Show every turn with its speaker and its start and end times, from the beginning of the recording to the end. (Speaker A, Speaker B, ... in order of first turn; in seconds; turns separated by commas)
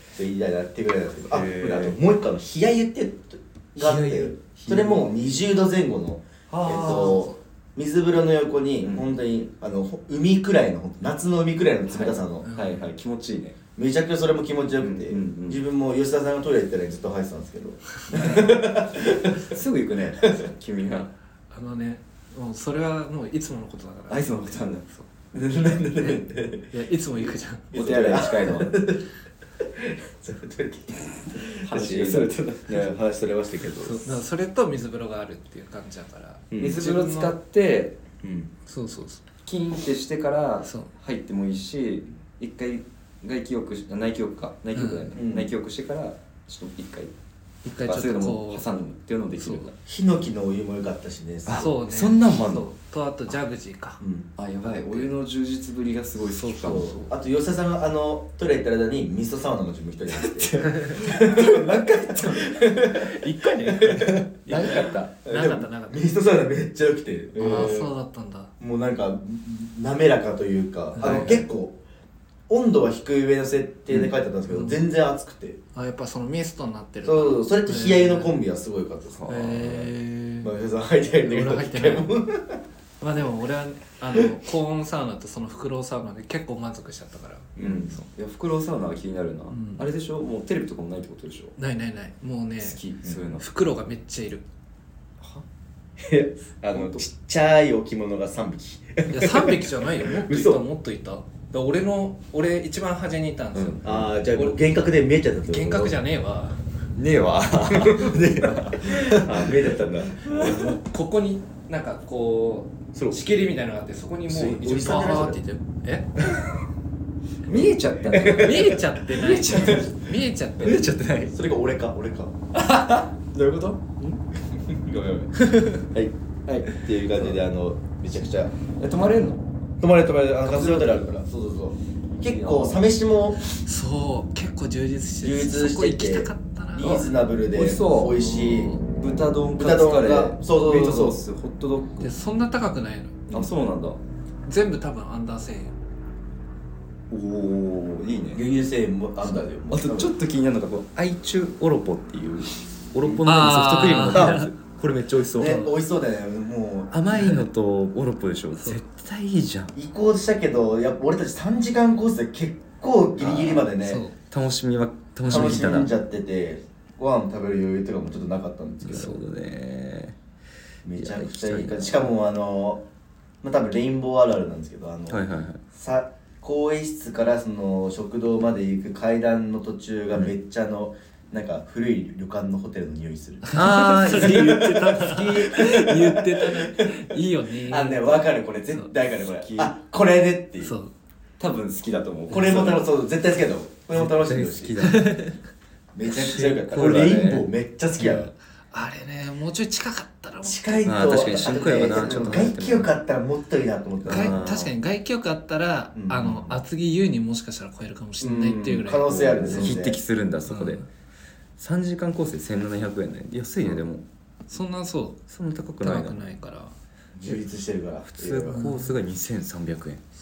Speaker A: 0.1-12.4, Speaker B: 1.3-2.0, Speaker B: 3.8-5.1, Speaker B: 6.5-7.3, Speaker C: 6.8-7.3, Speaker B: 8.8-9.2, Speaker B: 11.9-13.6, Speaker C: 12.4-12.9, Speaker A: 13.8-19.6, Speaker B: 14.8-15.6, Speaker B: 18.1-18.6, Speaker B: 19.4-21.1, Speaker A: 20.2-20.5, Speaker C: 21.5-25.1, Speaker B: 24.1-24.9, Speaker A: 25.3-26.7, Speaker C: 25.9-28.0, Speaker B: 27.7-28.8, Speaker A: 27.7-29.1, Speaker A: 29.6-34.2, Speaker B: 31.6-33.0, Speaker C: 33.8-37.4, Speaker A: 36.5-36.8, Speaker B: 36.6-38.0, Speaker A: 38.2-38.5, Speaker C: 38.6-39.2, Speaker B: 39.4-47.1, Speaker C: 40.6-40.9, Speaker C: 44.7-45.1, Speaker A: 45.1-45.5, Speaker C: 47.6-48.6, Speaker B: 47.8-49.7, Speaker C: 49.4-49.7, Speaker A: 49.9-51.7, Speaker B: 51.5-52.7, Speaker C: 51.5-54.0, Speaker A: 54.0-54.3, Speaker B: 54.4-57.0, Speaker C: 54.6-55.1, Speaker C: 56.2-57.1, Speaker A: 56.6-67.7, Speaker B: 60.1-62.6, Speaker C: 62.9-66.1, Speaker B: 64.5-65.1, Speaker B: 67.3-67.9, Speaker C: 67.3-68.5, Speaker A: 68.6-71.8, Speaker C: 71.0-71.4, Speaker B: 71.0-71.4, Speaker A: 72.5-75.6, Speaker C: 74.5-74.8, Speaker C: 75.7-78.4, Speaker A: 77.0-79.9, Speaker B: 79.1-79.9, Speaker C: 79.3-80.5, Speaker A: 80.4-82.6, Speaker C: 81.2-82.1, Speaker C: 83.0-88.0, Speaker A: 87.5-87.9, Speaker B: 87.6-91.5, Speaker C: 89.5-89.8, Speaker C: 91.6-92.8, Speaker B: 92.6-93.5, Speaker C: 93.3-94.4, Speaker B: 95.2-95.4, Speaker A: 96.0-100.6, Speaker B: 96.7-97.0, Speaker C: 99.1-104.6, Speaker B: 103.5-104.1, Speaker A: 103.8-106.0, Speaker C: 105.5-106.6, Speaker B: 106.9-110.8, Speaker A: 107.7-110.6, Speaker C: 110.3-116.1, Speaker A: 112.9-113.2, Speaker A: 114.3-115.4, Speaker B: 117.5-120.1, Speaker A: 117.5-118.8, Speaker C: 118.2-120.8, Speaker B: 120.6-121.3, Speaker A: 121.2-122.3, Speaker B: 122.5-124.2, Speaker A: 124.5-128.5, Speaker C: 125.5-125.8, Speaker B: 126.5-127.4, Speaker B: 128.8-129.4, Speaker A: 129.8-133.4, Speaker B: 130.5-130.8, Speaker C: 130.6-131.0, Speaker B: 132.2-132.8, Speaker C: 133.4-137.1, Speaker A: 135.2-138.8, Speaker B: 136.8-138.2, Speaker C: 138.1-138.8, Speaker B: 139.0-142.1, Speaker A: 139.6-141.2, Speaker C: 142.0-143.3, Speaker B: 143.3-144.0, Speaker C: 144.4-145.7, Speaker B: 147.1-148.4, Speaker A: 148.3-150.1, Speaker B: 149.7-155.6, Speaker C: 153.2-154.5, Speaker A: 154.1-154.4, Speaker A: 155.3-156.9, Speaker C: 155.4-155.7, Speaker B: 156.9-159.7, Speaker C: 157.1-157.4, Speaker C: 158.5-158.8, Speaker A: 159.7-164.0, Speaker B: 163.2-163.7, Speaker C: 163.8-164.2, Speaker B: 164.3-165.9, Speaker C: 165.2-165.8, Speaker A: 165.3-169.2, Speaker B: 168.8-170.2, Speaker A: 170.8-172.8, Speaker B: 170.9-172.1, Speaker A: 173.4-190.7, Speaker B: 175.1-175.6, Speaker C: 183.4-188.9, Speaker B: 183.5-184.8, Speaker B: 189.3-189.7, Speaker C: 190.6-190.9, Speaker B: 191.4-192.9, Speaker A: 192.3-194.8, Speaker C: 192.3-192.7, Speaker B: 193.9-195.2, Speaker C: 194.8-195.4, Speaker A: 195.9-198.3, Speaker B: 196.1-197.5, Speaker C: 198.0-202.4, Speaker A: 200.4-204.4, Speaker B: 200.8-202.9, Speaker B: 204.0-204.7, Speaker C: 204.1-209.7, Speaker A: 205.9-206.5, Speaker A: 208.2-210.0, Speaker B: 209.1-210.8, Speaker C: 210.4-210.8, Speaker B: 211.6-214.0, Speaker C: 214.5-215.2, Speaker B: 215.3-216.2, Speaker C: 215.8-216.7, Speaker A: 217.2-218.7, Speaker B: 218.1-220.0, Speaker C: 218.5-218.9